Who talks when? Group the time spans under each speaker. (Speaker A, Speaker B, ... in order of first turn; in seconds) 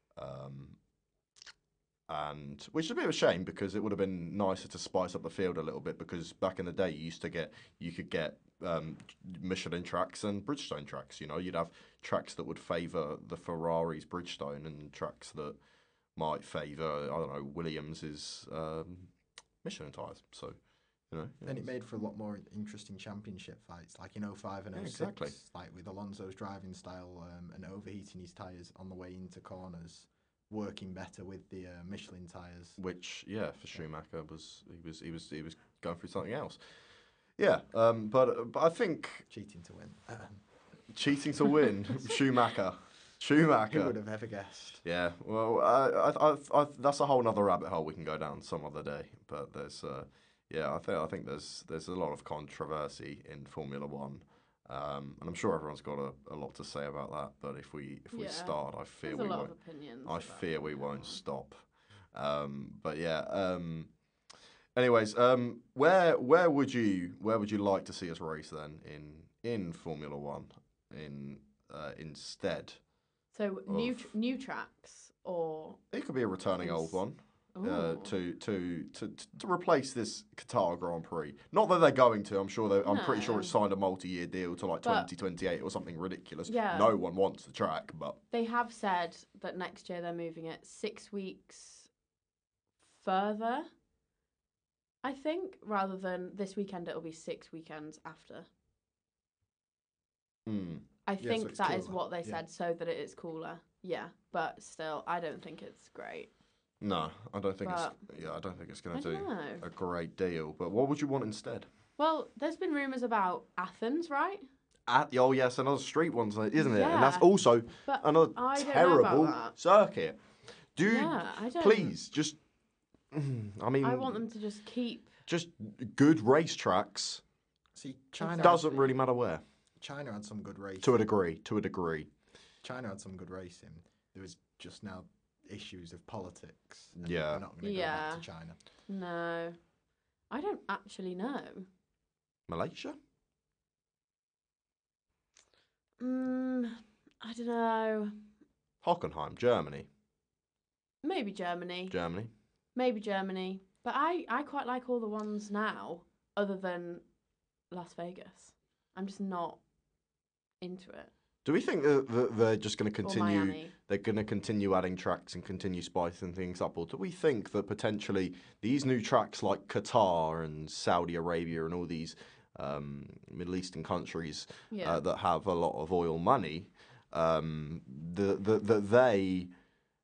Speaker A: 0.2-0.8, 2.1-15.6, 16.1-21.7, 24.8-25.4, 32.8-36.8, 37.4-39.3, 40.9-43.9, 44.8-59.5, 60.1-63.9, 64.8-72.8, 73.7-74.1, 75.9-88.2, 100.5-100.8, 106.8-111.7, 114.9-120.2, 120.7-122.4, 123.1-124.2, 125.3-127.2, 128.4-129.4, 130.8-132.1, 137.0-137.4, 142.5-143.0, 148.8-149.9, 151.9-152.3, 161.4-179.5
Speaker B: 21.4-32.8, 39.3-40.4, 43.7-44.8, 101.2-102.4, 127.8-128.6, 129.8-131.0, 132.6-138.6
Speaker C: 58.1-61.2, 73.3-75.8, 76.6-77.0, 77.5-78.2, 82.8-83.5, 84.8-85.1, 86.5-87.0, 88.3-91.9, 92.8-93.7, 95.0-98.5, 101.1-106.3, 107.6-108.0, 108.9-109.7, 112.0-114.5, 116.6-117.3, 117.8-119.6, 120.9-121.9, 123.8-125.1, 128.2-128.9, 137.6-138.2, 138.9-139.6, 140.3-141.7, 146.0-148.2, 151.0-152.0, 152.8-157.0, 157.7-159.6, 160.6-161.1, 163.0-163.7, 174.7-175.0